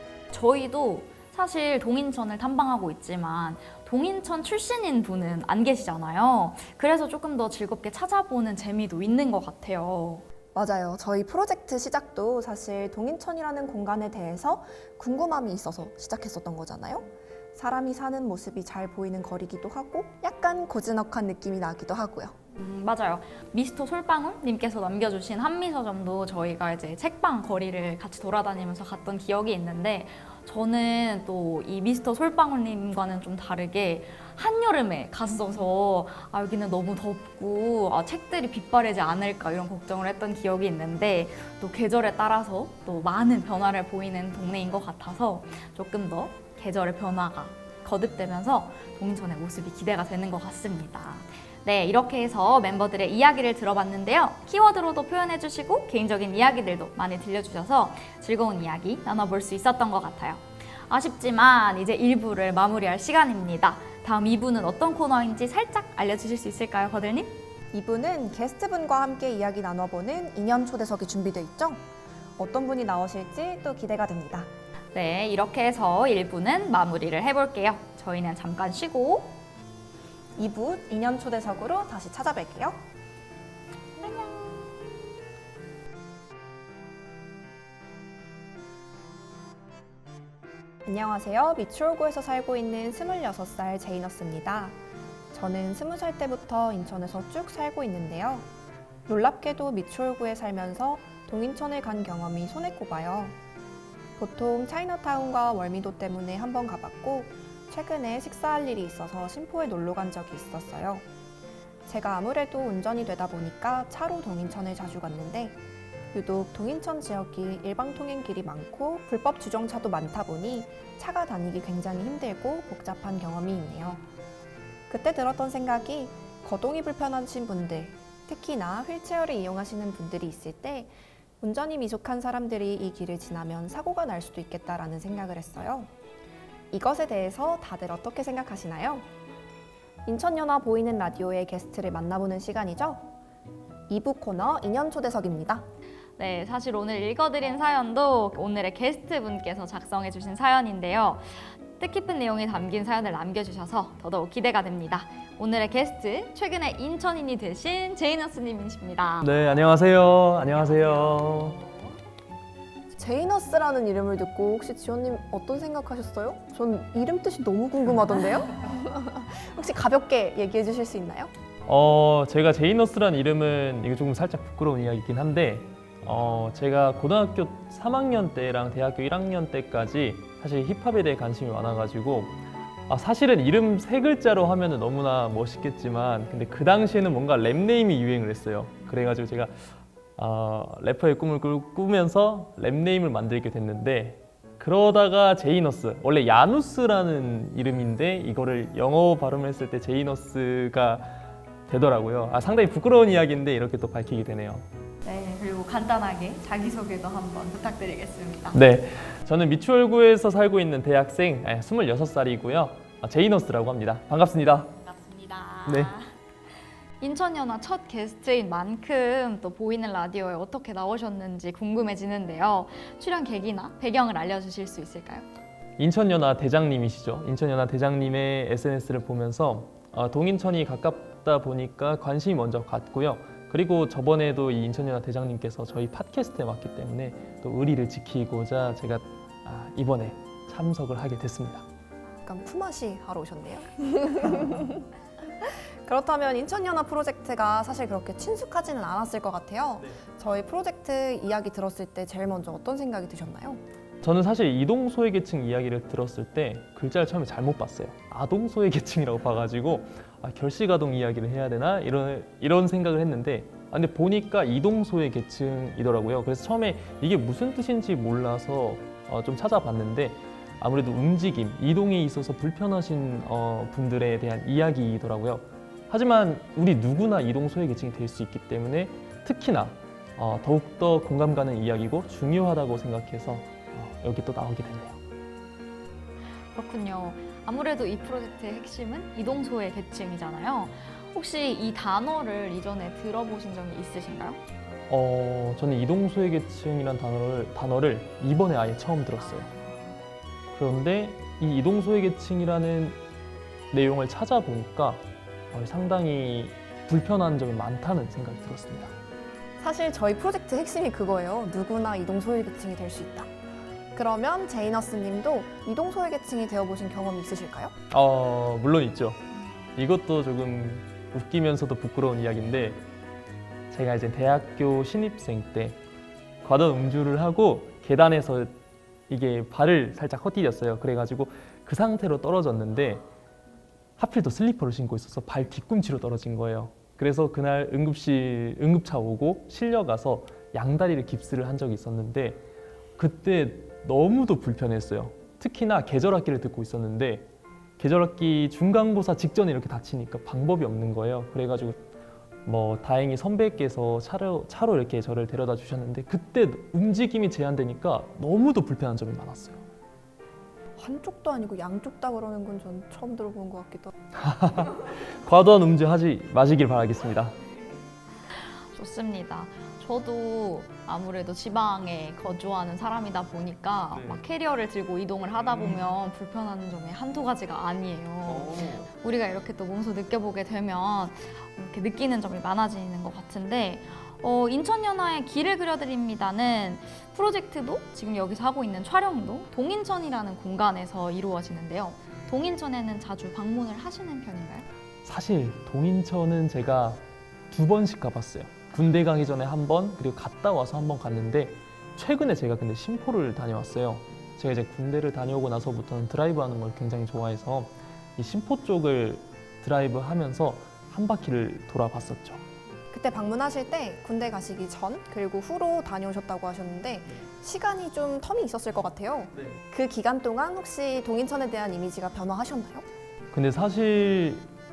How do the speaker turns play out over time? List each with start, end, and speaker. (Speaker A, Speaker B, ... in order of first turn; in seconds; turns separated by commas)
Speaker A: 0.3-10.2, Speaker B: 10.5-22.3, Speaker A: 22.6-67.4, Speaker B: 67.7-71.8, Speaker B: 72.4-74.5, Speaker A: 74.9-79.4, Speaker B: 80.4-82.8, Speaker A: 84.0-84.6, Speaker B: 90.8-94.8, Speaker B: 95.3-98.5, Speaker B: 99.1-103.4, Speaker B: 104.2-111.0, Speaker B: 111.8-115.6, Speaker B: 116.1-124.0, Speaker B: 124.9-135.9, Speaker B: 136.7-139.1, Speaker B: 140.1-143.1, Speaker B: 143.9-145.6, Speaker A: 146.2-159.3, Speaker C: 159.2-161.6, Speaker A: 160.8-161.8, Speaker B: 162.9-171.3, Speaker C: 171.7-182.4, Speaker C: 182.9-189.6, Speaker C: 190.2-204.7, Speaker A: 205.0-208.6, Speaker C: 208.5-214.7, Speaker A: 214.7-216.1, Speaker C: 215.7-215.9, Speaker A: 217.0-225.3, Speaker C: 225.8-241.6, Speaker B: 242.2-244.9, Speaker B: 245.4-253.6, Speaker C: 254.0-285.0, Speaker A: 286.5-294.4, Speaker C: 294.9-299.5, Speaker A: 299.2-299.9, Speaker C: 300.5-303.0, Speaker C: 303.7-308.9, Speaker B: 309.6-313.3, Speaker B: 313.9-317.7, Speaker C: 317.9-319.2, Speaker C: 319.8-322.8, Speaker C: 323.7-325.8, Speaker C: 326.4-328.6, Speaker C: 329.1-333.0, Speaker C: 334.0-342.4, Speaker C: 343.0-347.3, Speaker C: 347.8-351.8, Speaker C: 352.4-359.6, Speaker B: 360.8-363.9, Speaker C: 364.2-367.4, Speaker A: 368.6-394.7, Speaker C: 373.9-374.2, Speaker C: 375.4-375.9, Speaker C: 378.2-378.9, Speaker C: 395.0-412.4, Speaker B: 412.9-422.9, Speaker C: 419.3-419.6, Speaker C: 423.3-424.5